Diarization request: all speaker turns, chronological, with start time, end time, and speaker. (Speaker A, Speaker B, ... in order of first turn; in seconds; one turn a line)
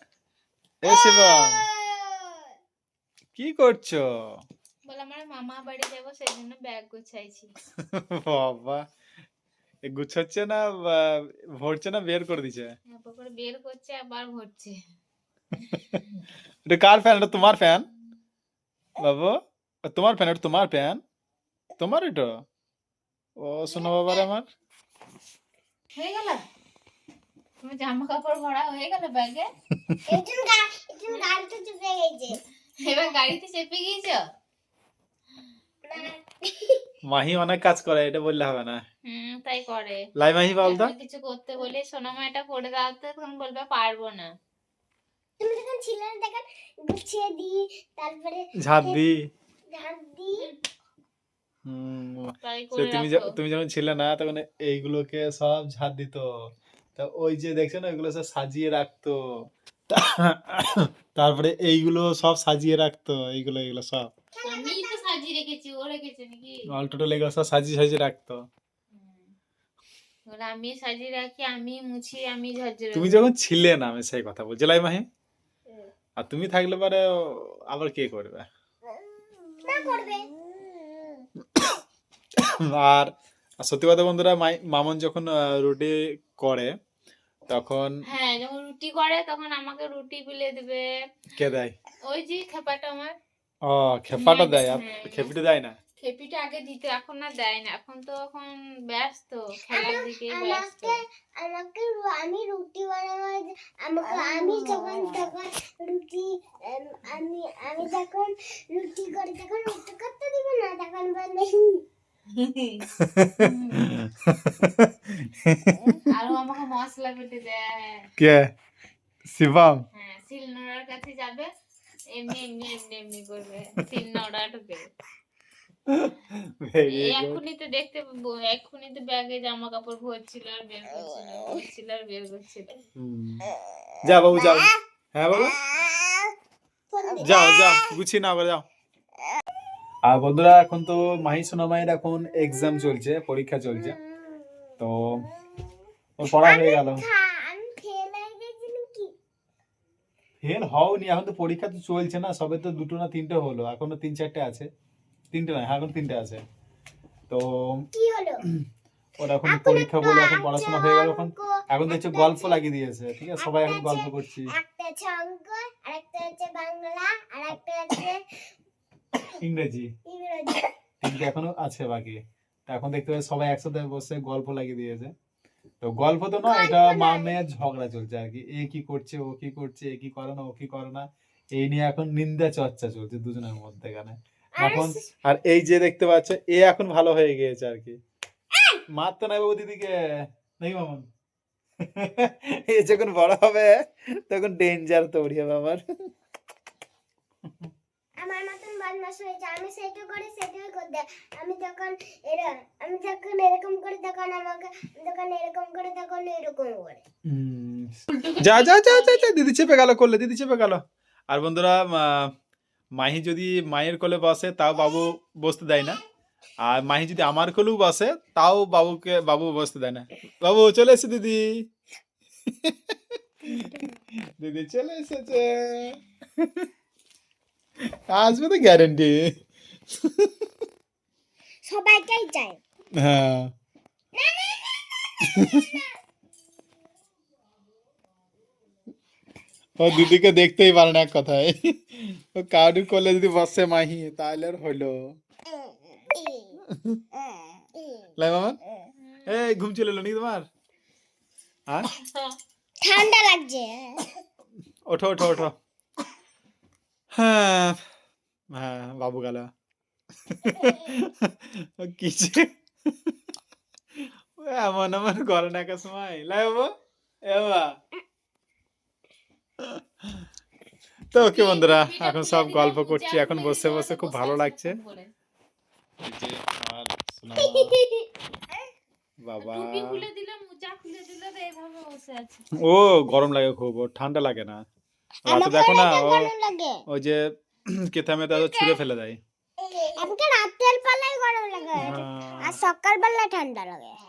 Speaker A: 0.8-1.6
Speaker B: 0.9-2.0
Speaker A: 3.4-4.0
Speaker C: 4.9-7.5
Speaker A: 7.9-8.8
Speaker A: 9.8-12.7
Speaker C: 12.9-14.8
Speaker C: 15.6-16.2
Speaker A: 15.7-16.0
Speaker A: 16.7-17.9
Speaker A: 19.0-19.4
Speaker A: 19.9-21.0
Speaker A: 21.8-22.3
Speaker A: 23.4-24.5
Speaker C: 26.0-26.4
Speaker C: 27.6-29.5
Speaker B: 30.1-32.4
Speaker C: 32.9-34.2
Speaker B: 35.9-36.8
Speaker A: 37.1-38.8
Speaker C: 39.1-40.0
Speaker A: 40.2-40.9
Speaker C: 40.6-44.3
Speaker B: 45.4-49.0
Speaker A: 48.6-49.2
Speaker B: 49.7-50.5
Speaker A: 51.6-64.1
Speaker C: 52.4-53.3
Speaker B: 64.3-65.0
Speaker C: 64.5-66.6
Speaker A: 66.7-68.4
Speaker C: 68.9-69.3
Speaker C: 70.3-73.2
Speaker A: 73.0-75.1
Speaker A: 76.2-78.5
Speaker B: 79.6-80.3
Speaker A: 81.5-81.8
Speaker A: 82.4-86.7
Speaker A: 87.5-88.0
Speaker C: 88.1-90.8
Speaker A: 91.4-91.7
Speaker C: 92.1-93.1
Speaker A: 93.7-95.8
Speaker C: 94.2-95.3
Speaker C: 96.0-101.0
Speaker B: 99.7-111.8
Speaker C: 112.3-112.9
Speaker A: 113.0-116.0
Speaker C: 113.4-113.8
Speaker C: 116.1-118.1
Speaker A: 118.2-118.5
Speaker A: 119.3-119.8
Speaker C: 119.9-121.5
Speaker C: 122.1-124.9
Speaker A: 125.9-127.4
Speaker C: 126.9-132.7
Speaker A: 133.0-133.4
Speaker A: 134.1-135.6
Speaker B: 136.9-138.0
Speaker A: 137.2-138.7
Speaker A: 140.1-144.0
Speaker B: 143.7-144.8
Speaker A: 144.8-145.2
Speaker B: 145.3-145.7
Speaker A: 146.2-147.1
Speaker B: 146.4-149.1
Speaker A: 150.4-154.7
Speaker A: 155.3-156.4
Speaker A: 157.3-157.9
Speaker B: 157.9-158.4
Speaker A: 159.2-164.5
Speaker B: 159.4-162.6
Speaker B: 163.4-168.2
Speaker A: 169.4-169.9
Speaker B: 170.1-170.7
Speaker A: 171.0-175.1
Speaker A: 175.8-188.0
Speaker B: 176.4-177.4
Speaker B: 184.6-185.0
Speaker A: 188.9-189.9
Speaker A: 190.6-191.1
Speaker A: 191.8-193.7
Speaker A: 194.3-195.8
Speaker B: 198.2-207.0
Speaker A: 207.3-212.3
Speaker C: 208.1-209.3
Speaker A: 213.0-216.0
Speaker A: 216.6-221.6
Speaker A: 222.6-223.8
Speaker A: 224.4-226.7
Speaker A: 228.1-229.3
Speaker A: 229.9-230.3
Speaker B: 231.7-232.6
Speaker A: 233.0-233.5
Speaker B: 234.2-235.9
Speaker A: 235.3-235.6
Speaker A: 239.8-245.2
Speaker B: 246.1-246.6
Speaker A: 246.7-247.0
Speaker A: 248.2-248.6
Speaker C: 249.0-249.5
Speaker A: 249.3-250.5
Speaker B: 252.8-254.1
Speaker A: 254.9-255.6
Speaker A: 257.1-257.8
Speaker A: 258.5-259.5
Speaker A: 260.3-262.5
Speaker A: 264.0-266.7
Speaker A: 267.2-267.8
Speaker A: 269.6-270.3
Speaker A: 271.1-274.8
Speaker C: 271.2-275.1
Speaker A: 276.0-277.8
Speaker B: 277.4-278.0
Speaker A: 279.2-280.1
Speaker C: 279.4-282.5
Speaker A: 282.6-284.6
Speaker A: 285.3-286.3
Speaker B: 285.3-286.8
Speaker A: 286.9-289.2
Speaker C: 288.3-288.8
Speaker B: 289.6-293.9
Speaker A: 291.8-292.6